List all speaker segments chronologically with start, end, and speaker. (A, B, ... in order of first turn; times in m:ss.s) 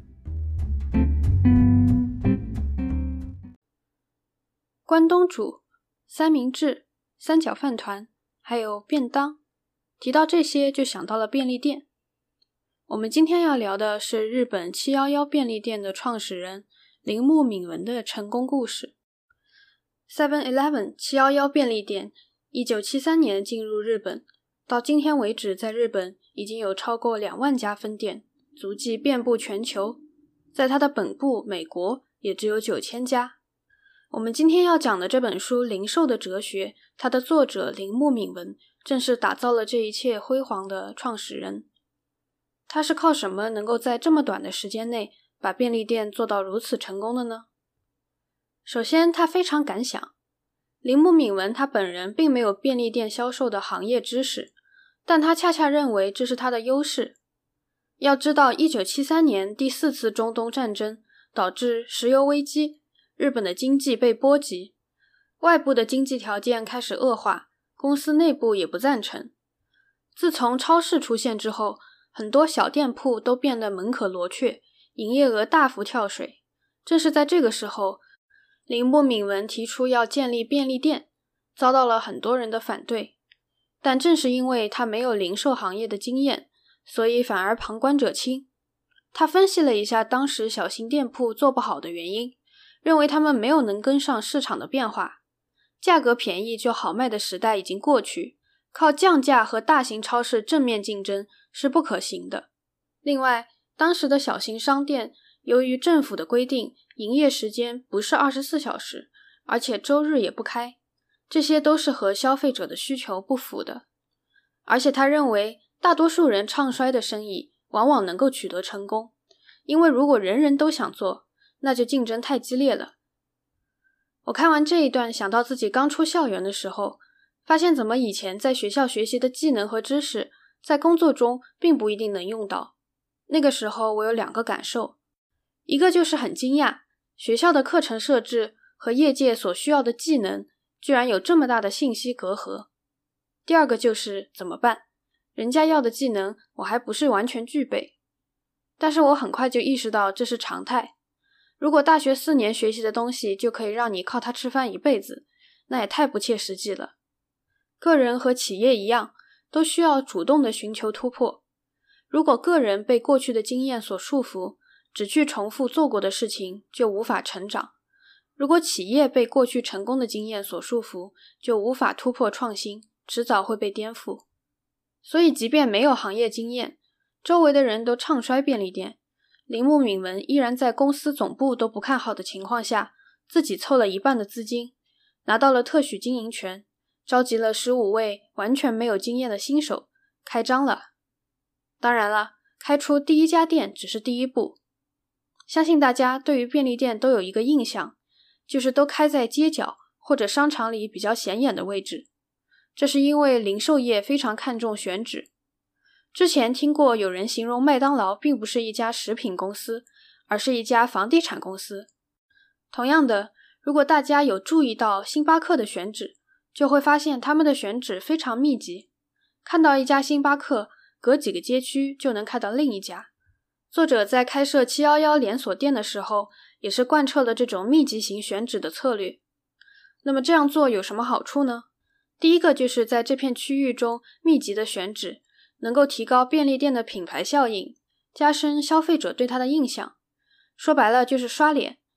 0:04.9-0:09.4 A
0:10.0-0:11.9 A
0:12.9-0:19.0 A
0:20.1-0:30.0 A
0:30.5-0:33.4 A
0:34.1-0:41.7 A
0:42.7-0:47.5 A
0:48.6-0:50.1 A
0:50.8-0:54.5 A
0:55.1-0:57.2 A
0:58.0-1:04.7 A
1:05.4-1:09.3 A
1:10.2-1:18.0 A
1:18.7-1:23.2 A
1:23.8-1:28.5 A
1:29.1-1:35.2 A
1:35.8-1:42.5 A
1:43.0-1:50.8 A
1:51.3-1:53.8 A
1:54.7-1:59.1 A
1:59.7-2:03.0 A
2:04.2-2:12.7 A
2:13.3-2:15.0 A
2:15.7-2:22.7 A
2:23.4-2:24.8 A
2:25.4-2:28.0 A
2:28.8-2:30.9 A
2:31.6-2:37.0 A
2:37.8-2:41.4 A
2:42.1-2:47.7 A
2:48.4-2:54.2 A
2:55.0-3:04.7 A
3:05.2-3:10.9 A
3:11.8-3:14.6 A
3:15.5-3:18.0 A
3:18.5-3:22.1 A
3:22.8-3:25.3 A
3:26.1-3:31.9 A
3:32.7-3:38.9 A
3:39.4-3:43.1 A
3:43.7-3:49.2 A
3:50.0-3:51.7 A
3:52.2-4:00.0 A
4:00.6-4:01.8 A